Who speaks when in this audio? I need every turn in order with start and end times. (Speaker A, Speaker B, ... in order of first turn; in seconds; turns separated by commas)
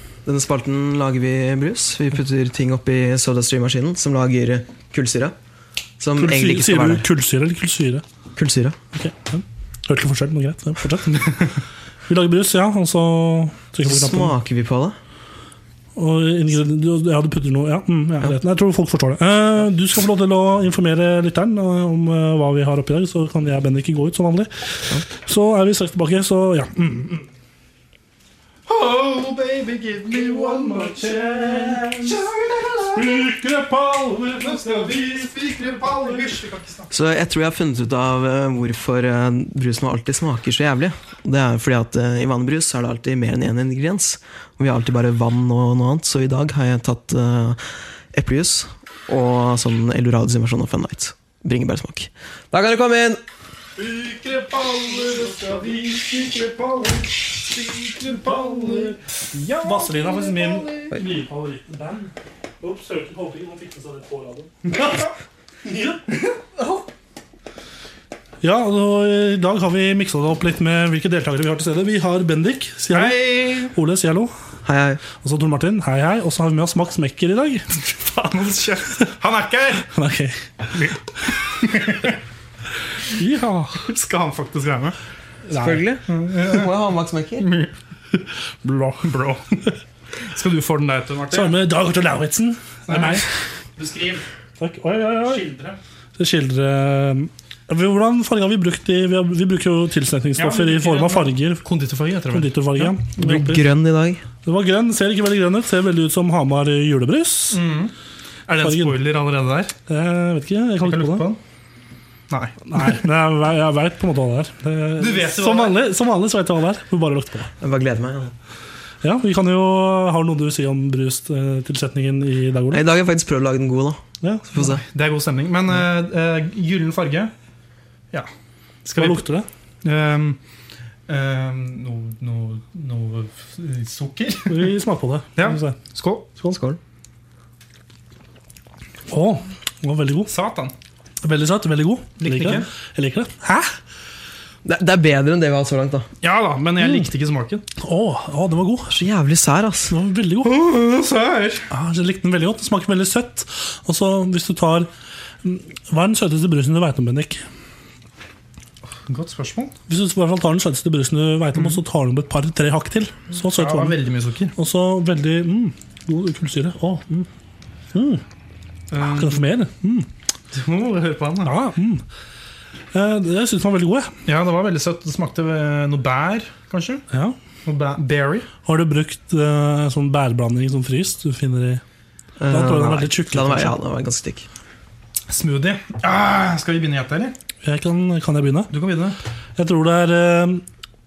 Speaker A: 0.3-5.3, Speaker A: 6.0-7.0, Speaker B: 6.2-8.0, Speaker A: 8.4-8.8, Speaker B: 8.9-11.5, Speaker B: 12.1-14.3, Speaker A: 13.8-15.0, Speaker B: 16.0-27.3, Speaker C: 28.7-33.2, Speaker B: 30.1-32.2, Speaker B: 32.9-35.3, Speaker C: 34.4-36.9, Speaker A: 36.9-47.6, Speaker A: 48.1-53.2, Speaker C: 53.8-61.0, Speaker B: 55.2-55.7, Speaker B: 58.2-59.0, Speaker B: 59.5-65.0, Speaker B: 65.7-66.0, Speaker C: 66.3-66.8, Speaker B: 68.4-74.3, Speaker C: 72.9-73.8, Speaker A: 74.7-75.0, Speaker B: 75.1-77.8, Speaker C: 77.8-79.9, Speaker B: 79.9-80.9, Speaker C: 80.8-82.2, Speaker B: 83.1-83.9, Speaker C: 83.8-85.0, Speaker B: 85.5-85.8, Speaker A: 85.5-87.5, Speaker C: 86.1-86.7, Speaker C: 87.4-87.7, Speaker B: 88.6-89.0, Speaker C: 88.9-91.6, Speaker B: 91.3-93.3, Speaker C: 92.9-93.2, Speaker C: 93.8-94.2, Speaker B: 94.6-95.5, Speaker C: 95.3-95.8, Speaker B: 96.2-101.7, Speaker C: 100.4-102.9, Speaker B: 102.3-103.7, Speaker A: 103.2-104.2, Speaker B: 104.4-107.6, Speaker C: 107.5-107.9, Speaker C: 108.5-109.7, Speaker B: 108.6-109.0, Speaker B: 109.9-111.3, Speaker C: 110.8-111.4, Speaker C: 112.3-113.0, Speaker B: 112.7-117.5, Speaker C: 115.0-115.8, Speaker A: 117.6-118.3, Speaker B: 119.0-122.8, Speaker A: 122.7-124.8, Speaker B: 124.2-124.6, Speaker C: 124.6-127.3, Speaker C: 128.8-129.2, Speaker B: 129.0-129.5, Speaker C: 129.8-130.4, Speaker C: 131.1-134.7, Speaker B: 134.5-135.8, Speaker C: 135.4-136.3, Speaker A: 136.4-136.8, Speaker B: 139.1-140.3, Speaker C: 140.3-140.7, Speaker B: 141.2-143.7, Speaker C: 142.2-142.7, Speaker A: 144.7-146.1, Speaker C: 146.2-147.7, Speaker B: 146.8-147.1, Speaker B: 147.8-149.0, Speaker A: 148.9-149.9, Speaker B: 149.9-150.6, Speaker C: 150.4-151.7, Speaker B: 151.7-154.9, Speaker B: 155.4-157.4, Speaker C: 159.1-159.8, Speaker B: 159.9-164.0, Speaker C: 163.4-164.5, Speaker B: 164.6-167.3, Speaker B: 167.9-168.2, Speaker C: 168.9-169.4, Speaker B: 169.0-170.1, Speaker C: 170.5-171.6, Speaker B: 171.4-172.0, Speaker B: 172.9-174.1, Speaker C: 174.3-177.0, Speaker B: 177.1-177.4, Speaker C: 177.7-178.5, Speaker B: 178.7-181.8, Speaker A: 182.4-184.5, Speaker B: 182.5-183.8, Speaker C: 185.3-187.3, Speaker B: 187.6-188.7, Speaker C: 188.7-189.2, Speaker B: 189.6-190.6